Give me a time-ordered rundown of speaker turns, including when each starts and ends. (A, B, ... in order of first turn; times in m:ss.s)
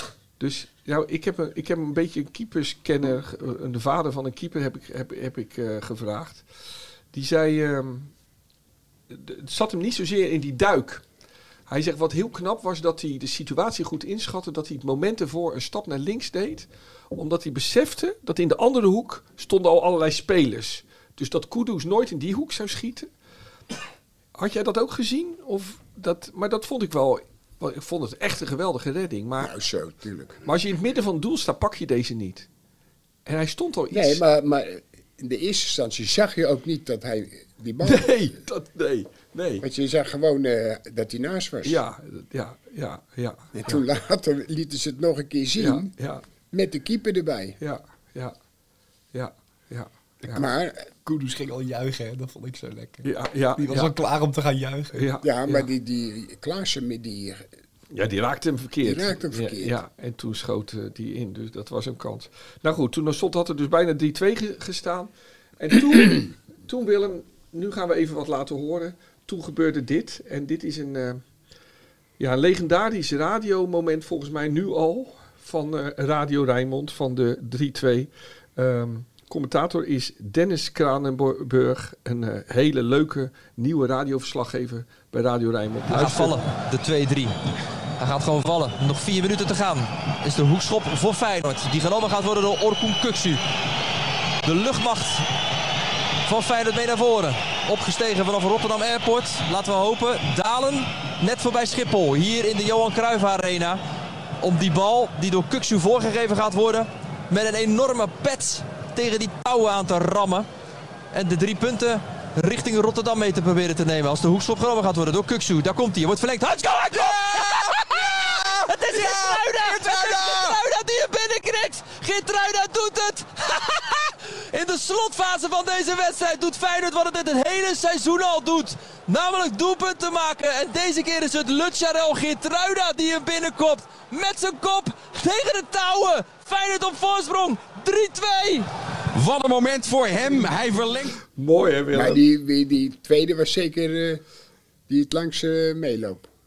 0:00.4-0:06.4 A
0:07.1-0:08.1 A
0:09.1-0:11.0 A
0:11.7-0:23.1 A
0:24.3-0:29.5 A
0:29.4-0:30.4 B
0:30.4-0:32.5 A
0:33.2-0:34.2 A
0:33.9-0:38.2 B
0:37.8-0:39.6 A
0:39.6-0:41.8 B
0:41.6-0:43.8 A
0:43.5-0:45.9 B
0:45.6-0:46.2 A
0:46.5-0:47.6 B
0:47.6-0:48.3 A
0:49.1-0:50.4 A
0:50.3-0:50.9 B
0:51.0-0:55.0 C
0:53.0-0:53.9 A
0:54.9-0:55.7 A
0:55.2-0:57.5 B
0:57.9-1:11.2 A
0:58.8-0:59.8 B
1:12.2-1:26.5 A
1:25.9-1:27.4 D
1:28.0-1:33.4 D
1:34.4-1:35.3 D
1:36.2-1:43.8 D
1:44.4-1:50.5 D
1:51.1-2:18.7 D
1:57.0-1:58.0 E
1:59.3-2:00.5 E
2:19.1-2:21.2 E
2:21.3-2:22.2 A
2:21.9-2:24.2 B
2:24.9-2:26.3 B